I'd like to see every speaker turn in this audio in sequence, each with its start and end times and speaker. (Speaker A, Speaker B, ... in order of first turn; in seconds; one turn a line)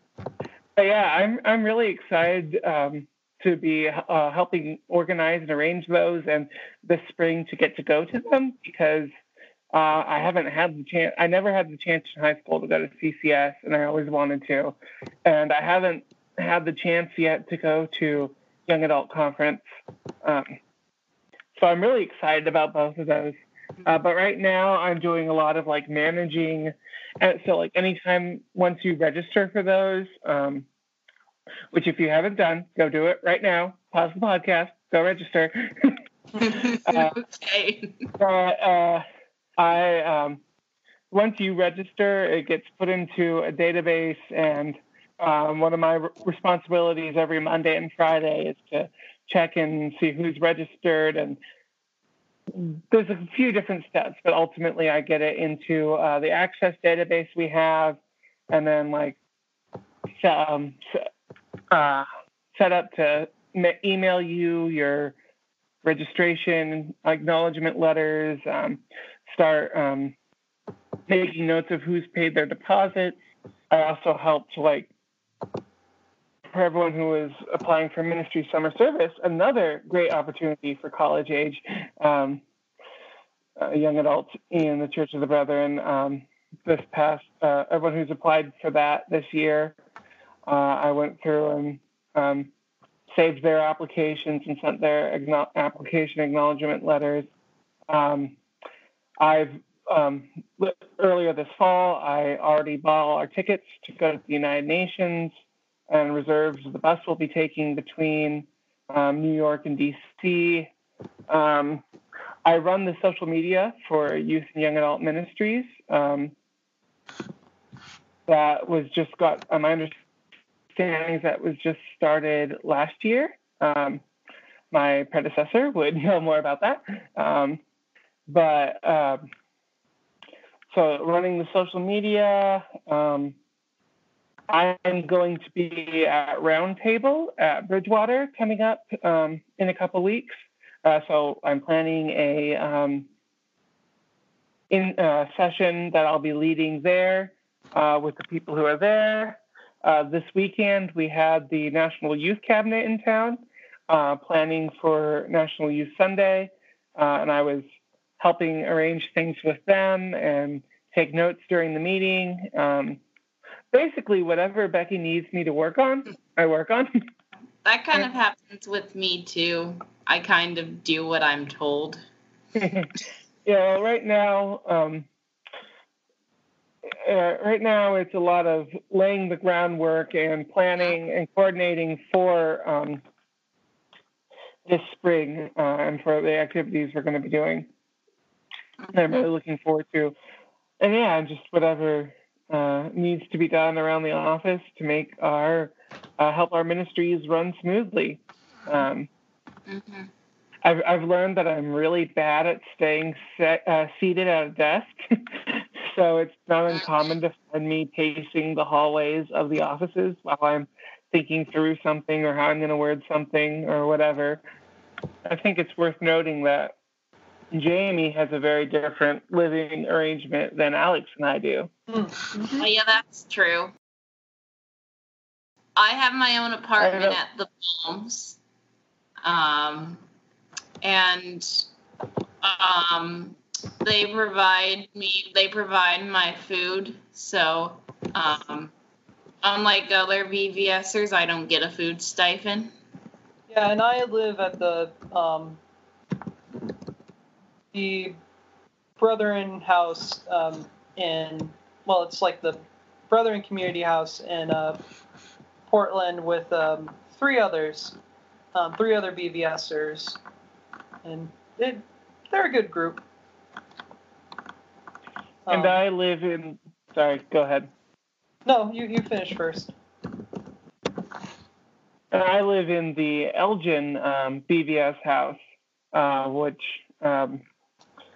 Speaker A: 0.8-9.1
Speaker A: 9.7-19.6
Speaker A: 20.2-20.6
Speaker A: 21.5-30.7
Speaker A: 31.7-36.0
Speaker B: 36.4-38.1
Speaker A: 36.8-37.2
Speaker A: 38.2-39.0
Speaker A: 39.6-40.4
Speaker A: 41.1-51.4
Speaker A: 52.5-58.0
Speaker A: 58.5-59.2
Speaker A: 60.1-60.9
Speaker A: 61.7-65.1
Speaker A: 65.8-70.1
Speaker A: 71.1-73.1
Speaker A: 73.7-74.9
Speaker A: 76.5-82.4
Speaker A: 83.6-89.8
Speaker A: 90.5-92.5
Speaker A: 93.1-97.3
Speaker A: 97.9-98.3
Speaker A: 99.2-105.3
Speaker A: 105.9-110.7
Speaker A: 111.3-111.8
Speaker A: 112.4-116.3
Speaker A: 118.3-119.9
Speaker A: 120.7-124.0
Speaker A: 124.7-127.6
Speaker A: 128.3-129.2
Speaker A: 130.7-133.3
Speaker A: 134.5-140.3
Speaker A: 140.8-143.1
Speaker A: 144.7-157.6
Speaker A: 158.2-163.0
Speaker A: 163.7-167.1
Speaker B: 167.6-172.0
Speaker A: 172.6-172.9
Speaker A: 173.4-175.1
Speaker A: 177.0-183.0
Speaker A: 184.7-187.7
Speaker A: 188.9-190.1
Speaker A: 190.8-199.1
Speaker B: 199.7-200.1
Speaker A: 200.6-214.4
Speaker A: 215.2-216.7
Speaker A: 217.5-221.7
Speaker C: 221.9-222.7
Speaker B: 222.6-223.7
Speaker B: 225.8-228.4
Speaker A: 226.8-227.2
Speaker B: 229.2-230.0
Speaker B: 230.8-231.6
Speaker B: 232.4-238.7
Speaker B: 239.4-242.7
Speaker C: 243.5-245.6
Speaker C: 247.7-248.2
Speaker C: 249.0-252.6
Speaker C: 253.1-254.8
Speaker C: 255.7-257.9
Speaker C: 258.5-260.2
Speaker C: 261.0-263.0
Speaker C: 265.4-265.8
Speaker A: 265.5-267.7
Speaker C: 268.4-269.7
Speaker A: 272.1-275.4
Speaker A: 275.9-277.4